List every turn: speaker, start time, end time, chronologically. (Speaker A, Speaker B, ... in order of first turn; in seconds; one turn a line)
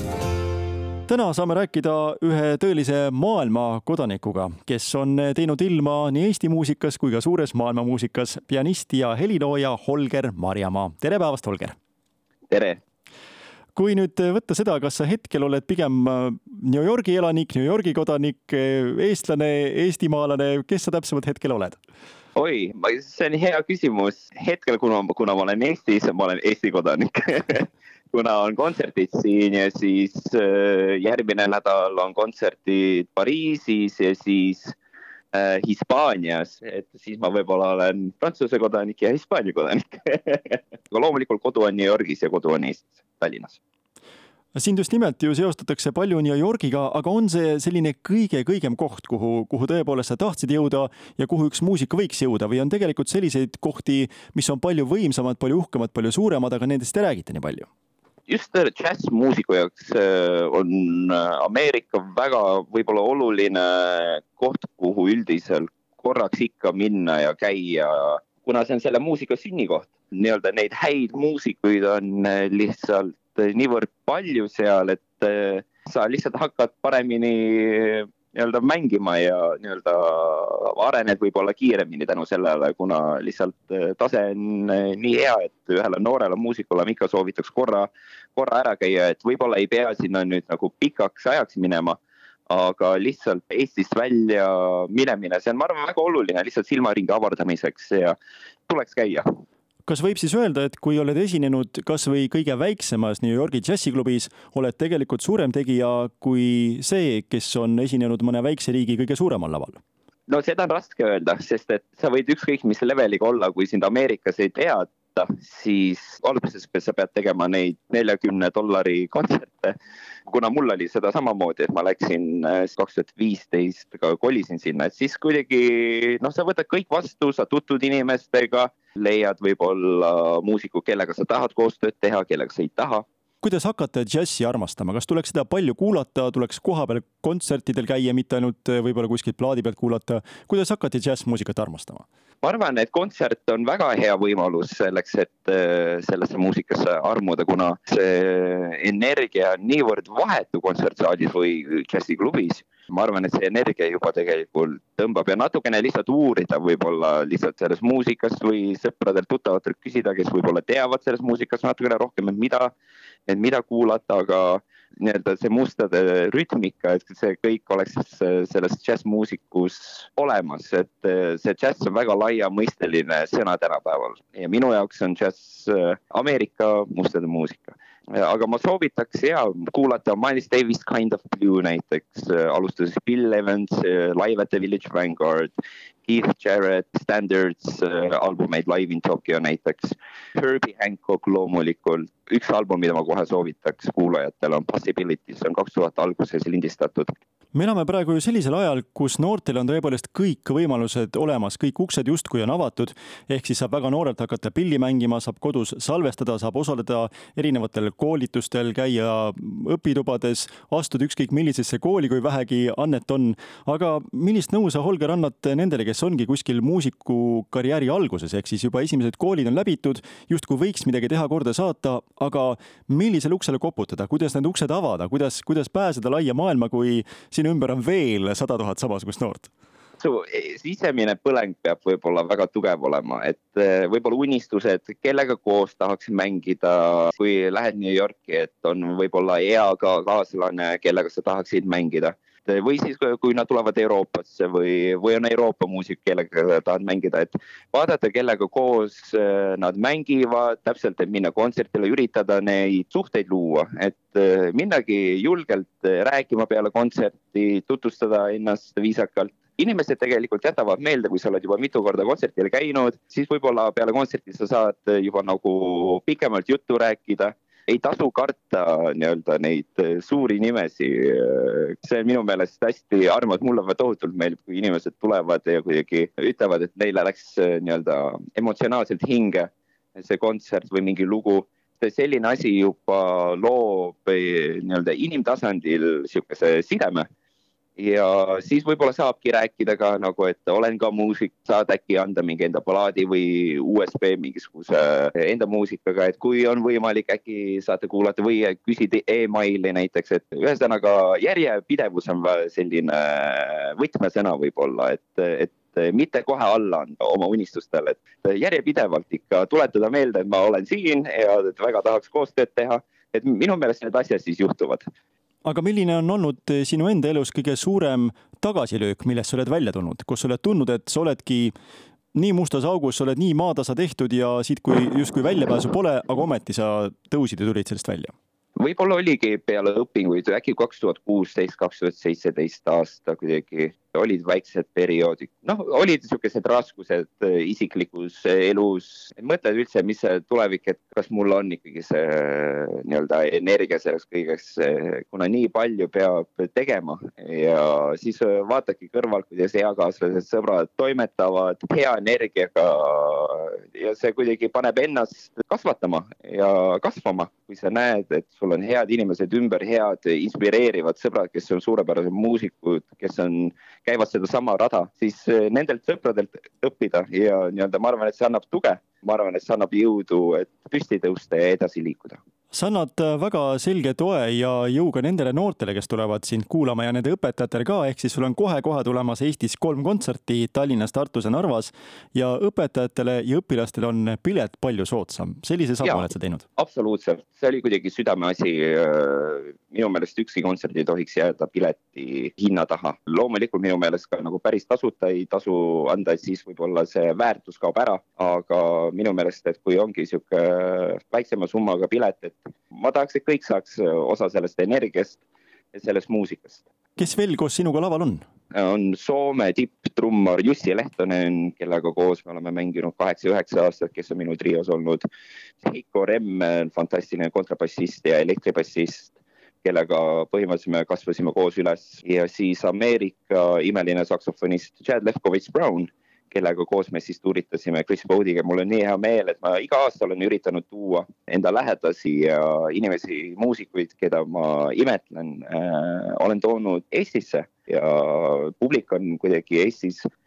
Speaker A: 1.1-11.8
Speaker B: 12.5-12.8
Speaker A: 13.8-21.8
Speaker B: 22.4-34.8
Speaker B: 35.3-43.6
Speaker A: 44.5-57.7
Speaker B: 58.3-98.2
Speaker B: 98.7-99.2
Speaker A: 99.9-109.8
Speaker B: 110.3-119.8
Speaker B: 120.3-133.1
Speaker A: 133.4-142.0
Speaker B: 142.4-162.7
Speaker B: 163.3-185.5
Speaker B: 186.1-197.1
Speaker A: 197.5-229.5
Speaker B: 230.0-287.1
Speaker B: 287.8-314.9
Speaker A: 315.5-321.5
Speaker A: 322.1-328.1
Speaker B: 328.6-372.2
Speaker A: 372.5-386.4
Speaker B: 385.8-405.2
Speaker B: 405.7-406.6
Speaker A: 407.0-408.2
Speaker B: 408.5-415.0
Speaker B: 415.6-440.1